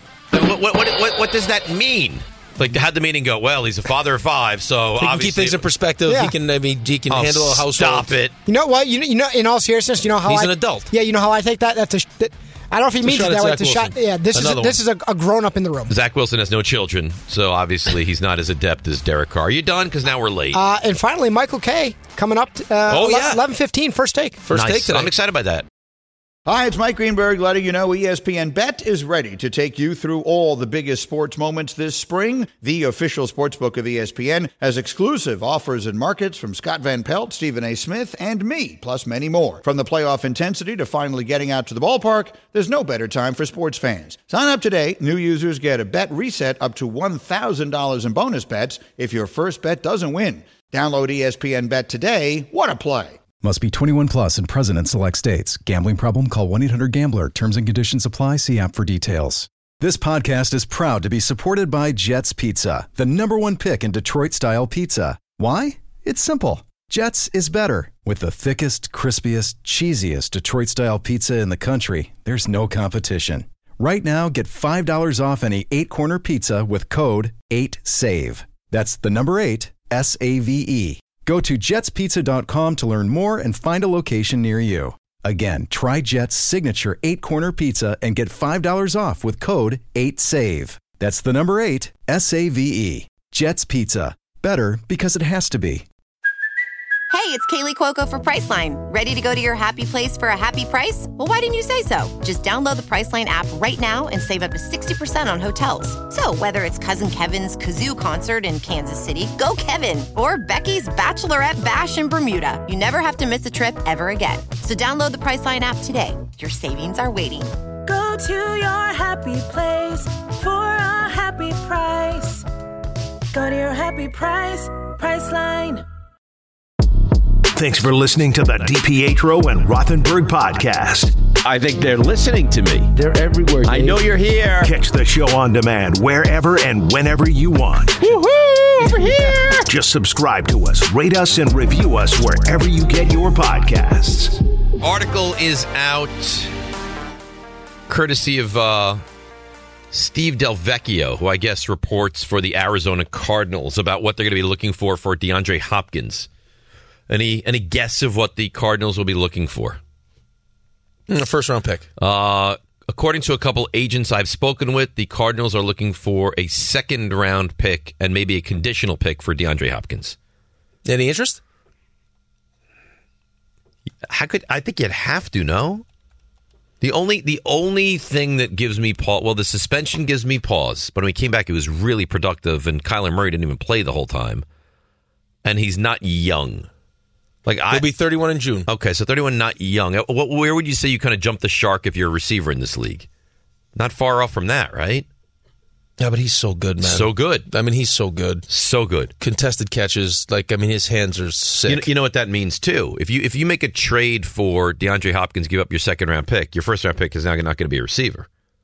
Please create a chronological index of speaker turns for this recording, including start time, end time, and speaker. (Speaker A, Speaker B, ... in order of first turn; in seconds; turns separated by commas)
Speaker A: 0.3-5.6, Speaker B: 5.0-8.2, Speaker C: 6.1-6.3, Speaker A: 7.1-8.3, Speaker C: 8.5-15.9, Speaker B: 10.2-10.9, Speaker B: 13.0-14.8, Speaker A: 15.9-20.6, Speaker C: 20.5-24.4, Speaker B: 22.9-23.4, Speaker B: 24.4-25.1, Speaker A: 24.5-25.7, Speaker D: 26.5-53.2, Speaker E: 53.4-95.8, Speaker F: 97.1-117.5, Speaker G: 117.9-122.5, Speaker G: 123.3-125.8, Speaker H: 127.5-131.2, Speaker A: 131.4-132.9, Speaker B: 133.0-134.0, Speaker A: 133.6-134.7, Speaker H: 134.6-138.2, Speaker H: 139.6-144.4, Speaker A: 144.8-146.5, Speaker A: 147.9-149.0, Speaker A: 149.9-156.3, Speaker A: 157.1-159.8, Speaker B: 161.1-161.9, Speaker A: 162.0-170.2, Speaker B: 170.8-171.4, Speaker A: 174.1-175.8, Speaker A: 176.8-184.4, Speaker A: 185.4-186.7, Speaker A: 187.5-187.8, Speaker B: 187.7-188.7, Speaker A: 188.7-193.1, Speaker A: 193.8-195.1, Speaker B: 196.0-198.4, Speaker A: 196.8-197.5, Speaker A: 198.5-199.1, Speaker B: 199.2-201.9, Speaker A: 201.7-208.3